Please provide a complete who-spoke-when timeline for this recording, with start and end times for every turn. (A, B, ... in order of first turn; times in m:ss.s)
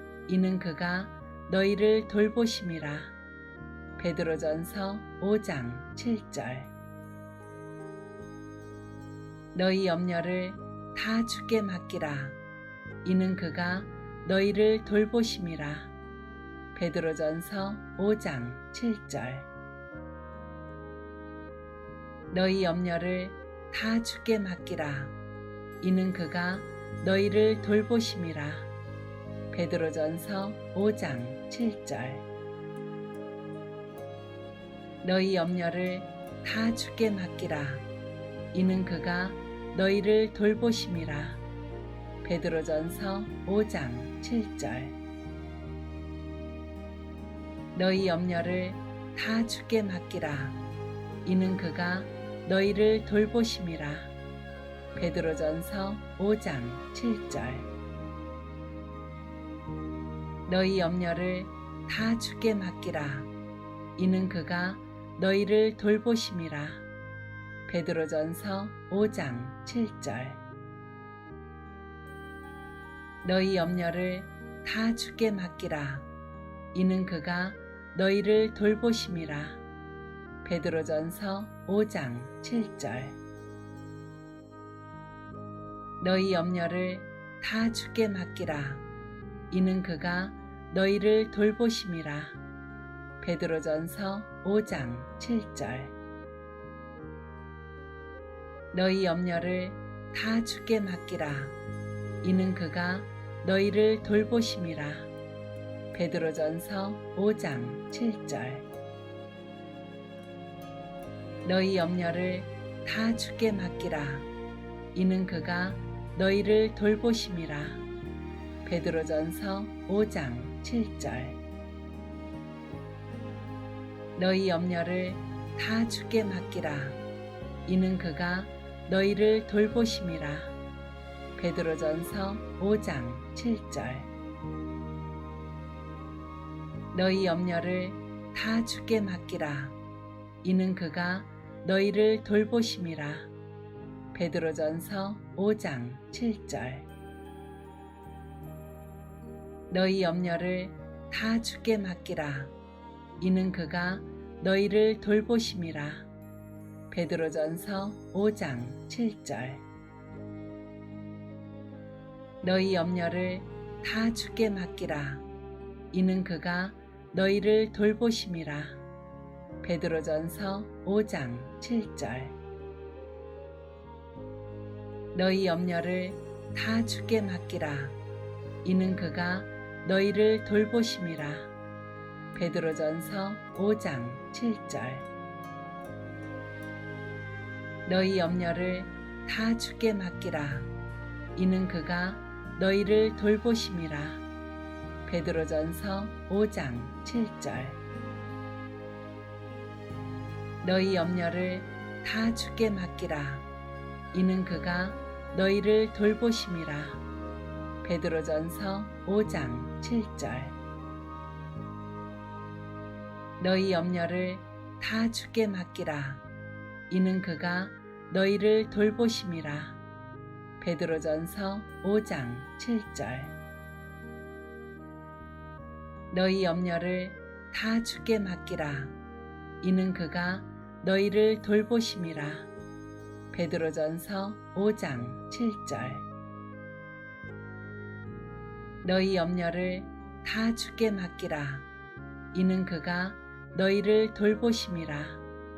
0:00.3-0:03.2 A
0:04.0-0:06.7 A
0:09.5-0:12.4 A
0:13.0-0:15.9 A
0:16.7-0:19.5 A
0:22.3-0:25.1 A
0:25.8-0:28.7 A
0:29.5-0:32.3 A
0:35.0-0:37.9 A
0:38.5-0:41.4 A
0:42.2-0:45.0 A
0:47.8-0:50.6 A
0:51.2-0:54.1 A
0:54.9-0:57.7 A
1:00.5-1:03.3 A
1:04.0-1:06.8 A
1:07.7-1:10.4 A
1:13.2-1:16.1 A
1:16.7-1:19.6 A
1:20.4-1:23.2 A
1:26.0-1:28.8 A
1:29.5-1:32.4 A
1:33.2-1:36.0 A
1:38.7-1:41.6 A
1:42.2-1:45.1 A
1:45.9-1:48.7 A
1:51.4-1:54.3 A
1:54.9-1:57.8 A
1:58.6-2:01.4 A
2:04.2-2:07.0 A
2:07.7-2:10.5 A
2:11.4-2:14.1 A
2:16.9-2:19.8 A
2:20.4-2:23.3 A
2:24.1-2:26.9 A
2:29.7-2:32.5 A
2:33.2-2:36.1 A
2:36.9-2:39.6 A
2:42.4-2:45.2 A
2:45.9-2:48.8 A
2:49.6-2:52.4 A
2:55.1-2:58.0 A
2:58.6-3:01.5 A
3:02.3-3:05.1 A
3:07.9-3:10.7 A
3:11.4-3:14.2 A
3:15.1-3:17.8 A
3:20.6-3:23.5 A
3:24.1-3:27.0 A
3:27.8-3:30.6 A
3:33.4-3:36.2 A
3:36.9-3:39.8 A
3:40.6-3:43.4 A
3:46.1-3:49.0 A
3:49.6-3:52.5 A
3:53.3-3:56.1 A
3:58.8-4:01.7 A
4:02.3-4:05.2 A